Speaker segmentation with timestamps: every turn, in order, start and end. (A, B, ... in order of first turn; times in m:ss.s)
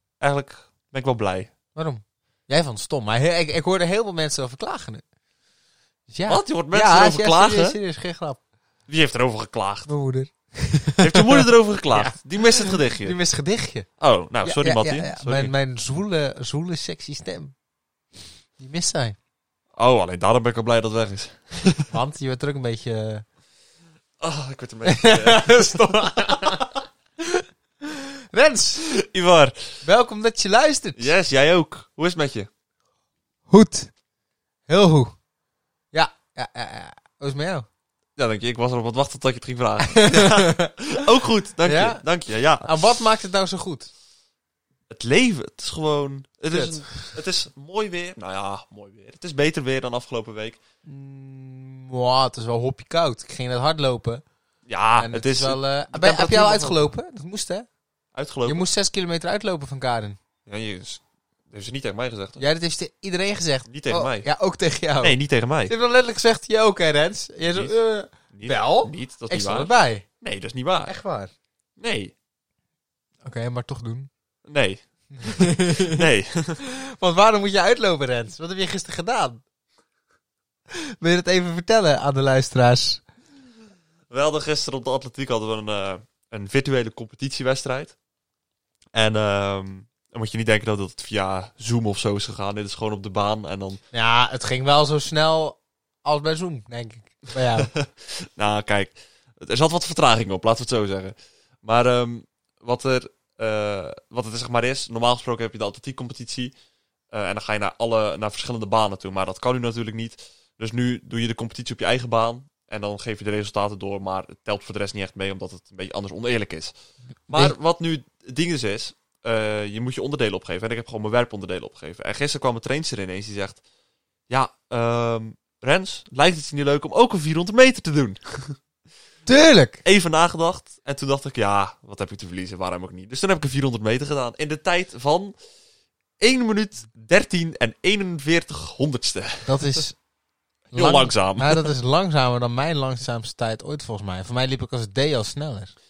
0:00.2-0:01.5 A
0:01.8-0:05.0 B
0:06.1-0:08.4 B
0:06.3-0:07.8 A
0:08.9-0:09.9 A
0:09.9-0:13.9 B
0:11.0-0:13.2 A
0:14.0-0:15.5 A
0:14.4-0:17.5 B
0:18.6-0:19.2 B
0:19.8-0:21.9 A
0:21.9-0:23.2 B
0:24.2-0:26.6 A
0:24.9-0:26.7 B
0:27.2-0:28.9 B
0:28.9-0:29.6 A
0:29.8-0:31.1 B
0:31.0-0:32.5 A
0:33.5-0:33.9 B
0:34.7-0:35.1 B
0:35.9-0:37.7 B
0:38.2-0:42.9 A
0:39.8-0:40.7 B
0:41.6-0:42.0 B
0:42.6-0:43.9 B
0:44.9-0:50.6 A
0:46.5-0:47.2 B
0:50.8-0:54.2 B
0:54.7-0:56.8 A
0:55.0-0:57.7 B
0:58.1-0:58.6 A
0:58.5-1:00.2 B
1:00.5-1:02.4 A
1:02.4-1:05.2 B
1:03.7-1:04.3 A
1:05.0-1:05.7 A
1:05.7-1:10.0 B
1:08.3-1:10.9 A
1:10.9-1:11.3 B
1:11.8-1:12.1 A
1:13.2-1:14.1 B
1:14.5-1:16.6 A
1:15.1-1:16.0 B
1:16.6-1:19.4 B
1:21.0-1:23.0 B
1:24.1-1:28.0 A
1:28.9-1:33.8 A
1:33.9-1:37.7 B
1:37.6-1:46.6 A
1:47.1-1:56.7 A
1:57.3-2:03.6 A
2:04.3-2:08.6 A
2:09.3-2:09.8 B
2:09.8-2:15.3 A
2:16.2-2:19.8 A
2:19.4-2:20.0 B
2:20.7-2:25.7 B
2:20.7-2:21.7 A